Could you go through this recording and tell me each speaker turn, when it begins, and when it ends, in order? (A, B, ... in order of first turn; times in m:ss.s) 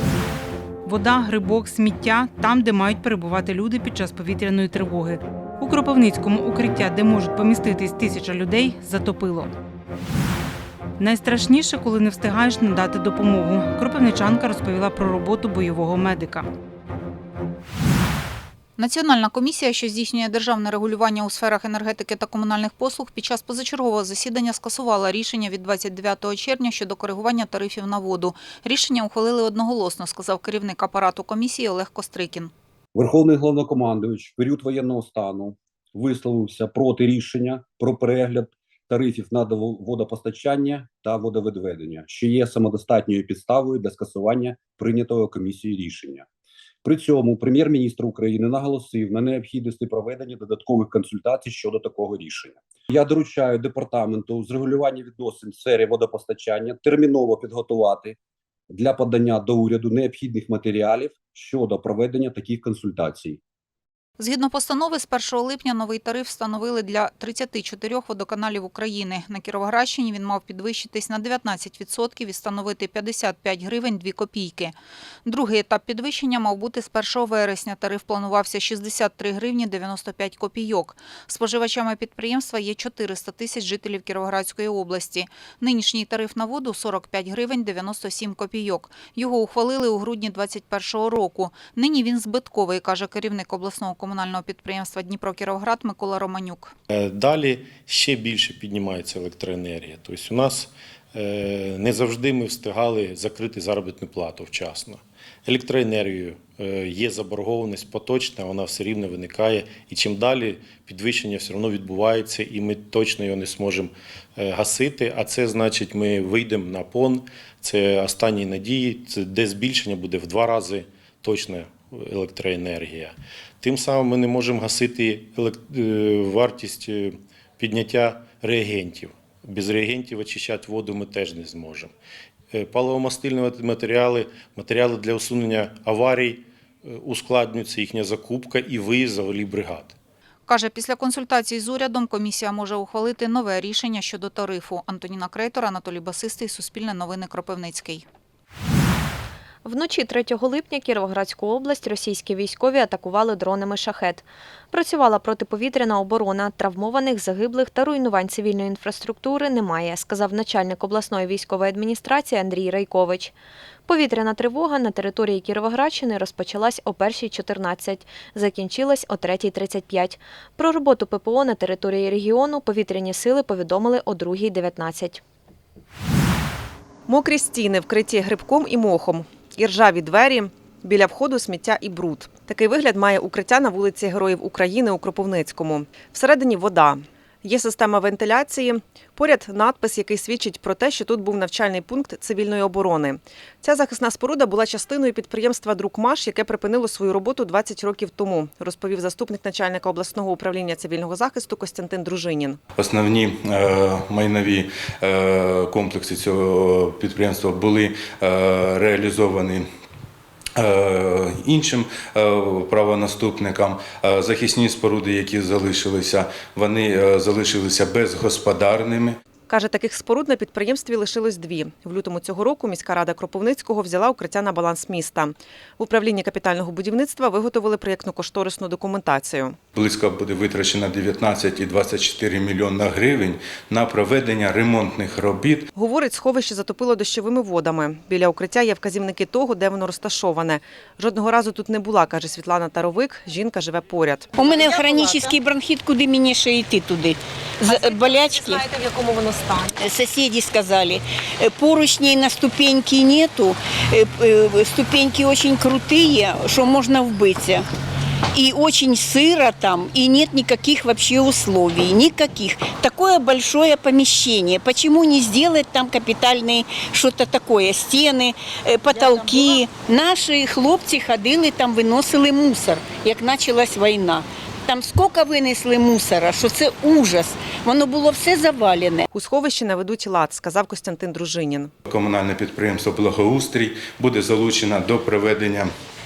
0:00.8-0:09.5 A
0:11.0-0:16.5 A
0:18.8-0:32.5 B
0:33.0-0:46.3 C
0:46.8-0:58.2 C
0:58.7-1:03.4 C
1:04.2-1:14.8 B
1:15.3-1:36.7 B
1:36.9-2:11.9 D
2:12.5-2:20.0 D
2:20.5-2:28.1 B
2:29.6-2:43.3 E
2:43.9-2:55.2 E
2:57.1-3:22.6 F
3:22.8-3:29.7 G
3:30.6-3:39.2 G
3:39.5-3:49.6 F
3:49.8-3:55.7 G
3:55.8-4:04.3 F
4:04.4-4:08.9 H
4:09.7-4:17.7 H
4:18.3-4:39.1 H
4:39.1-4:41.7 F
4:41.9-4:45.7 G